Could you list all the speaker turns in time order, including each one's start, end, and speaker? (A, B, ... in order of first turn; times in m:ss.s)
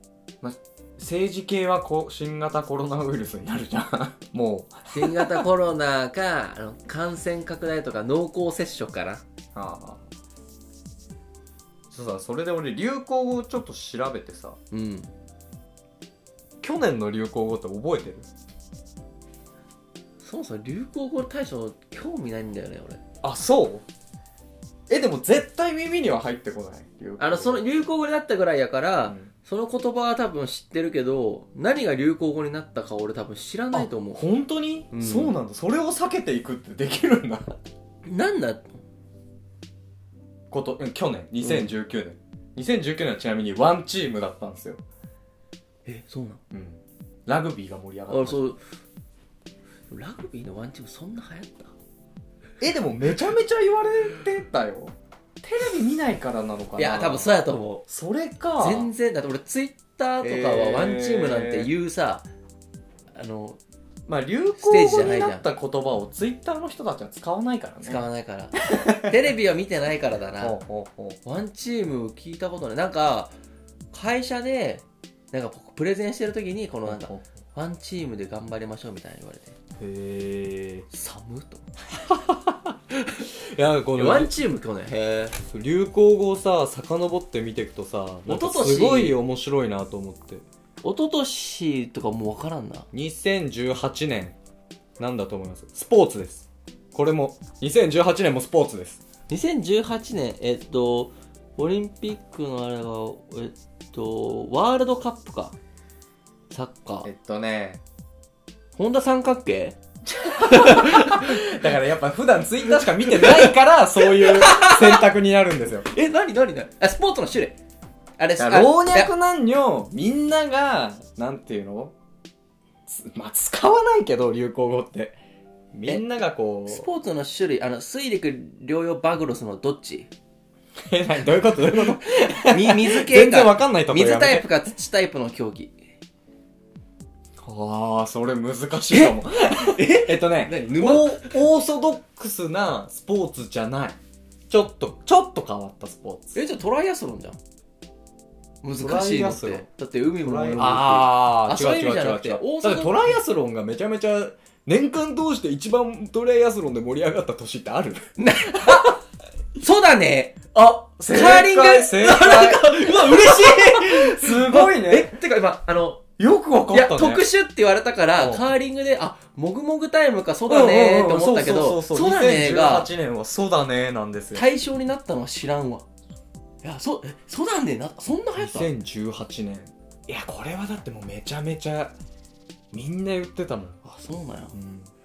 0:00.4-0:05.4 A
0:04.9-0:09.2 B
0:09.5-0:10.0 A
0:11.9-0:14.6 A
0:14.7-0:15.1 B
0:16.6-0:18.3 A
0:20.2-0:23.0 B
0:23.2-0:23.8 A
0:24.9-0:27.6 A
0:27.2-0:34.2 B
0:29.0-0:29.3 A
0:33.7-0:37.5 A
0:34.9-0:35.4 B
0:38.0-0:38.8 B
0:40.5-0:44.8 A
0:41.4-0:41.7 B
0:45.8-0:46.4 B
0:46.5-0:48.5 A
0:48.1-0:48.6 B
0:49.9-0:51.7 B
0:52.6-0:57.3 A
0:56.8-0:57.8 B
0:57.9-0:58.9 A
0:58.6-1:02.3 B
1:00.2-1:01.7 A
1:03.1-1:03.6 B
1:04.1-1:08.0 A
1:04.6-1:05.5 B
1:07.8-1:10.6 B
1:08.7-1:09.0 A
1:10.4-1:11.2 A
1:11.2-1:13.3 B
1:13.9-1:19.6 B
1:16.8-1:17.2 A
1:19.8-1:20.9 A
1:20.9-1:21.6 B
1:22.0-1:24.3 A
1:24.0-1:25.4 B
1:25.4-1:30.4 A
1:28.2-1:29.2 B
1:30.8-1:32.8 B
1:32.9-1:34.4 A
1:35.0-1:39.0 A
1:39.3-1:45.5 B
1:46.5-1:47.1 B
1:47.0-1:47.8 A
1:48.8-1:51.4 B
1:50.1-1:55.9 A
1:53.0-1:55.0 B
1:55.9-1:57.6 B
1:58.2-1:59.1 B
1:58.4-2:01.9 A
2:02.9-2:05.2 A
2:05.7-2:06.9 A
2:06.7-2:10.1 B
2:10.9-2:14.4 A
2:12.4-2:15.8 B
2:17.4-2:24.0 A
2:18.9-2:21.4 B
2:24.5-2:26.4 A
2:26.3-2:27.4 B
2:28.6-2:33.2 B
2:28.8-2:29.7 A
2:30.2-2:38.0 A
2:38.2-2:39.0 B
2:39.6-2:46.0 B
2:41.0-2:45.2 A
2:46.2-2:47.2 A
2:46.7-2:52.9 B
2:48.2-2:48.4 A
2:50.5-2:54.4 A
2:54.3-2:55.8 B
2:56.6-2:58.7 B
2:58.4-3:01.9 A
3:02.7-3:03.8 A
3:03.8-3:04.5 B
3:04.5-3:04.9 A